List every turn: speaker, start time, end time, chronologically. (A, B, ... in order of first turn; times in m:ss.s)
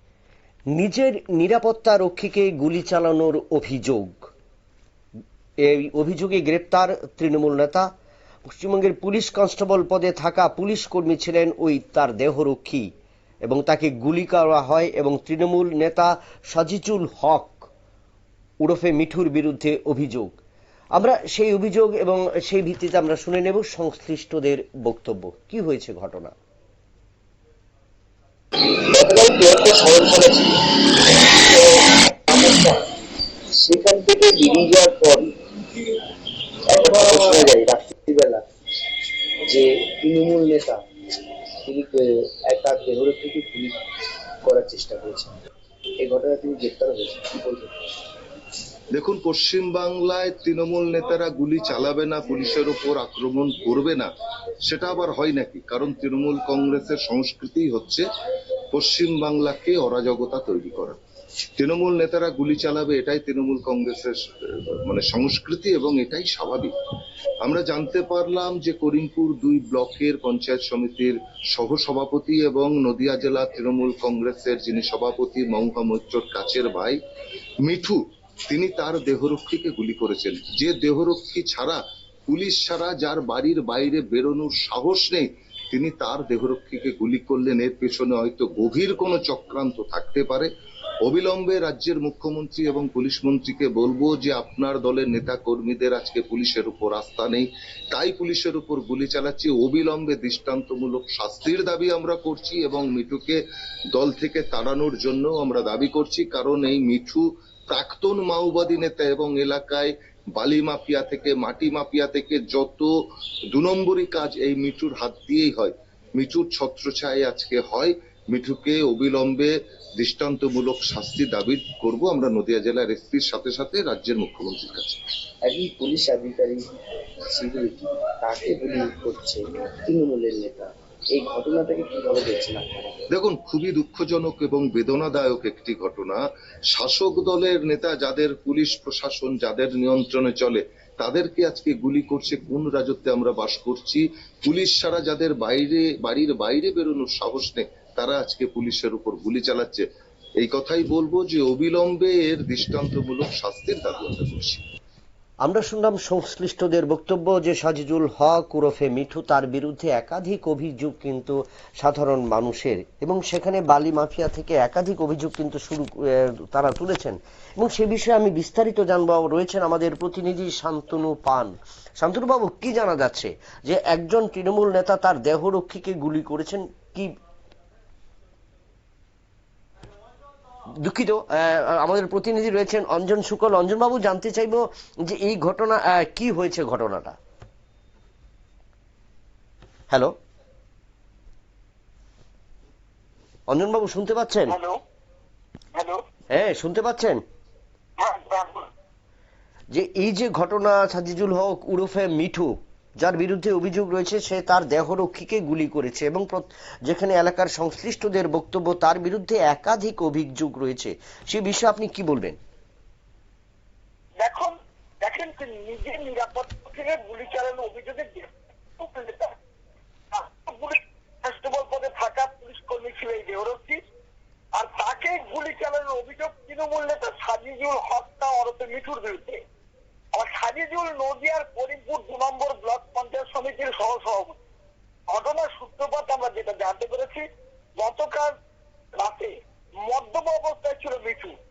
0:00.8-0:04.3 A
0:05.6-0:07.9 A
0:08.5-0:12.9 A
0:13.5-0:17.7 A
0:18.6-0:20.4 A
0:21.0-0:26.4 A
0:28.7-0:30.6 B
0:31.3-0:32.8 B
0:33.5-0:35.3 B
0:36.7-0:38.5 B
0:39.4-0:43.8 B
0:44.4-0:45.4 B
0:46.0-0:47.9 B
0:48.9-0:54.1 C
0:54.7-0:58.0 C
0:58.7-1:01.0 C
1:01.6-1:06.7 C
1:07.4-1:17.0 C
1:17.6-1:30.5 C
1:31.0-1:43.4 C
1:44.0-1:52.9 C
1:53.5-2:05.0 C
2:05.4-2:06.7 B
2:07.2-2:13.0 B
2:13.1-2:29.9 C
2:30.4-2:34.6 C
2:35.4-2:57.1 A
3:00.8-3:07.2 A
3:09.9-3:10.2 A
3:13.5-3:14.6 A
3:14.5-3:14.8 D
3:15.8-3:16.0 D
3:16.3-3:17.2 A
3:18.0-3:18.7 D
3:19.7-3:32.4 A
3:34.2-3:39.3 D
3:40.1-3:43.8 D
3:44.6-3:49.4 D
3:50.2-3:54.4 D
3:55.1-3:57.2 D
3:57.8-3:58.3 D
3:59.0-3:59.3 D
3:59.8-4:01.3 D